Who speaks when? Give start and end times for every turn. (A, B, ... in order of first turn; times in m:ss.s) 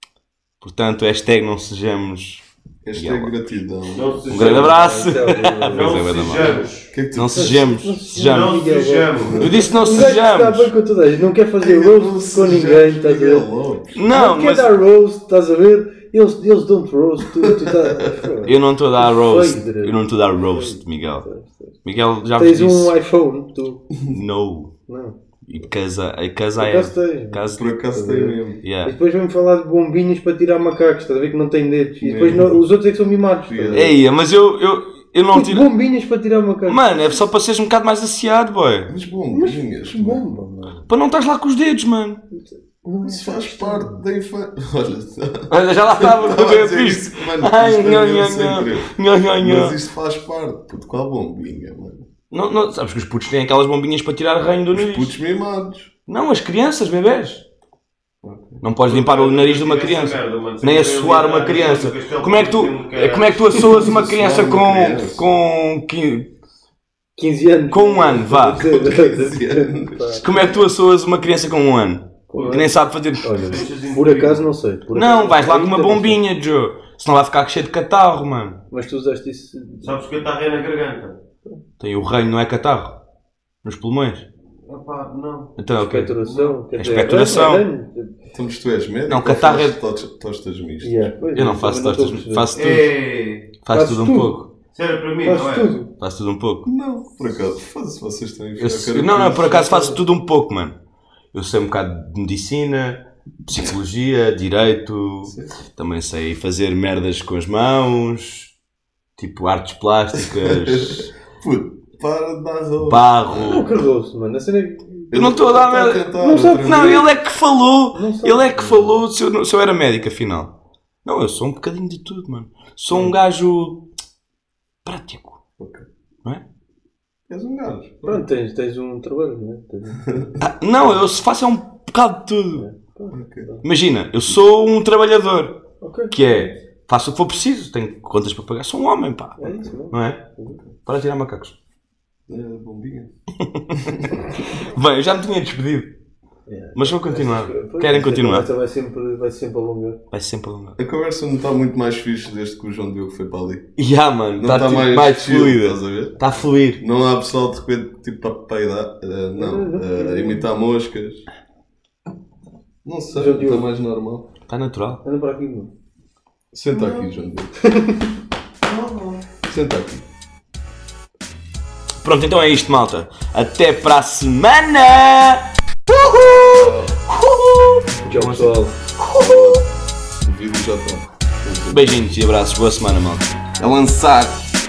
0:00.6-0:03.3 A
0:02.8-0:04.8 B
0:03.9-0:04.9 C
0:04.3-0:08.6 A
0:04.6-0:06.0 D
0:05.7-0:06.9 C
0:06.3-0:07.8 B
0:07.4-0:13.5 D
0:08.2-0:09.5 C
0:09.2-0:09.7 B
0:09.4-0:10.7 A
0:11.6-0:14.0 B
0:14.0-0:14.8 A
0:14.1-0:21.8 D
0:17.4-0:18.2 B
0:18.4-0:21.3 A
0:21.8-0:22.9 A
0:22.4-0:23.9 D
0:24.1-0:24.7 A
0:24.9-0:25.2 D
0:25.5-0:27.8 A
0:26.6-0:33.9 D
0:27.5-0:28.6 B
0:28.6-0:29.0 A
0:32.0-0:32.6 B
0:33.5-0:34.0 B
0:33.7-0:35.7 A
0:35.3-0:37.3 D
0:36.7-0:38.9 A
0:38.9-0:40.3 B
0:39.3-0:40.9 D
0:40.9-0:42.2 A
0:42.3-0:44.0 D
0:43.0-0:52.1 B
0:45.5-0:49.8 A
0:52.3-0:55.1 A
0:54.7-0:55.9 B
0:56.1-0:57.4 A
0:58.2-0:58.6 B
0:58.6-1:06.3 A
0:58.9-1:04.0 C
1:03.5-1:05.3 B
1:07.2-1:10.3 D
1:07.7-1:08.7 A
1:08.6-1:10.4 B
1:10.2-1:13.6 A
1:12.3-1:16.2 D
1:13.4-1:14.5 C
1:14.9-1:18.6 A
1:18.7-1:20.0 D
1:19.8-1:21.2 C
1:21.8-1:23.0 A
1:23.6-1:24.3 A
1:24.7-1:25.6 C
1:25.6-1:26.2 A
1:25.7-1:28.1 D
1:26.2-1:27.1 C
1:26.8-1:27.7 A
1:28.3-1:31.1 B
1:29.1-1:29.8 A
1:30.8-1:32.5 D
1:31.3-1:32.9 A
1:32.5-1:33.5 C
1:33.6-1:34.5 A
1:33.7-1:34.4 D
1:34.7-1:35.7 C
1:35.2-1:35.9 D
1:36.0-1:36.7 A
1:36.7-1:40.0 B
1:38.6-1:40.8 A
1:41.3-1:48.5 A
1:45.3-1:45.6 B
1:49.2-1:51.1 A
1:50.2-1:53.1 B
1:52.8-1:53.8 A
1:53.3-1:55.1 D
1:55.1-1:57.1 B
1:55.1-2:00.5 A
1:56.1-1:57.0 D
1:57.9-1:59.0 D
2:01.0-2:03.8 A
2:04.8-2:05.4 A
2:05.6-2:05.9 B
2:07.3-2:08.3 B
2:08.0-2:10.1 D
2:10.0-2:10.4 B
2:10.4-2:12.7 A
2:12.5-2:13.6 D
2:13.1-2:13.6 B
2:13.6-2:20.2 A
2:15.8-2:16.4 D
2:19.4-2:20.6 D
2:20.8-2:21.6 A
2:22.3-2:23.1 B
2:23.5-2:26.0 A
2:26.5-2:30.0 D
2:26.8-2:28.5 A
2:30.1-2:30.8 A
2:30.8-2:33.7 B
2:33.8-2:36.8 A
2:34.4-2:41.3 B
2:39.4-2:40.4 D
2:42.8-2:44.3 B
2:43.1-2:43.7 D
2:44.5-2:45.0 A
2:45.0-2:45.7 D
2:46.5-2:47.6 B
2:46.8-2:47.0 C
2:47.6-2:48.0 D
2:48.6-2:49.3 C
2:49.4-2:50.0 B
2:52.0-2:59.6 A
2:56.4-2:57.0 B
2:58.0-2:58.7 D
2:59.1-2:59.6 B
3:00.2-3:02.0 B
3:01.7-3:03.3 A
3:03.6-3:04.4 B